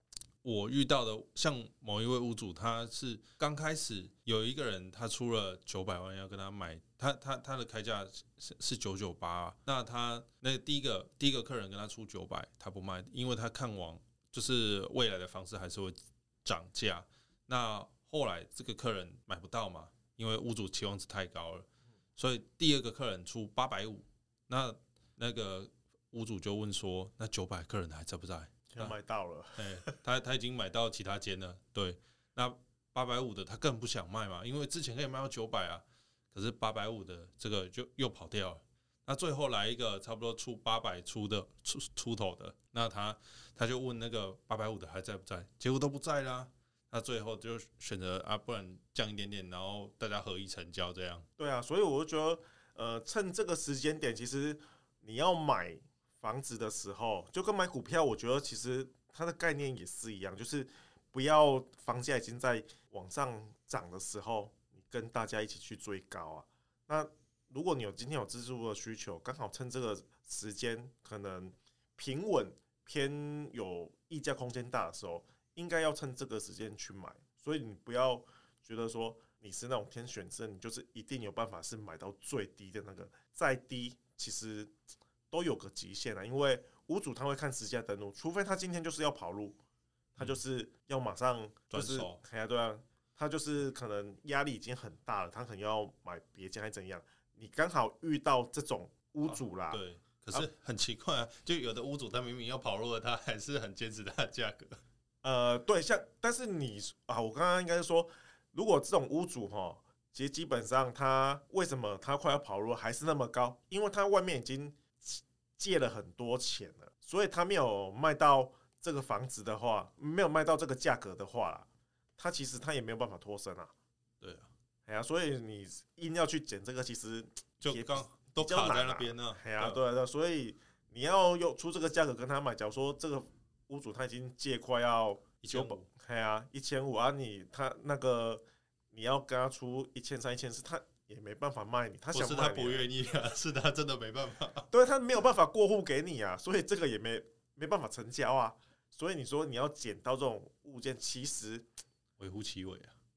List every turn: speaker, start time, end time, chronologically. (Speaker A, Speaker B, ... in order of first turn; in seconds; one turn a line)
Speaker A: 0.4-28.9
Speaker B: 28.7-30.0
Speaker A: 29.6-51.3
Speaker B: 51.4-84.7
Speaker B: 85.3-89.6
Speaker B: 90.2-100.5
Speaker A: 91.7-92.2
Speaker A: 99.2-104.8
Speaker B: 105.2-123.7
Speaker A: 124.2-124.5
Speaker B: 124.9-142.9
Speaker A: 127.6-129.8
Speaker A: 135.4-135.9
Speaker A: 142.1-144.7
Speaker B: 144.7-151.7
Speaker A: 152.2-152.9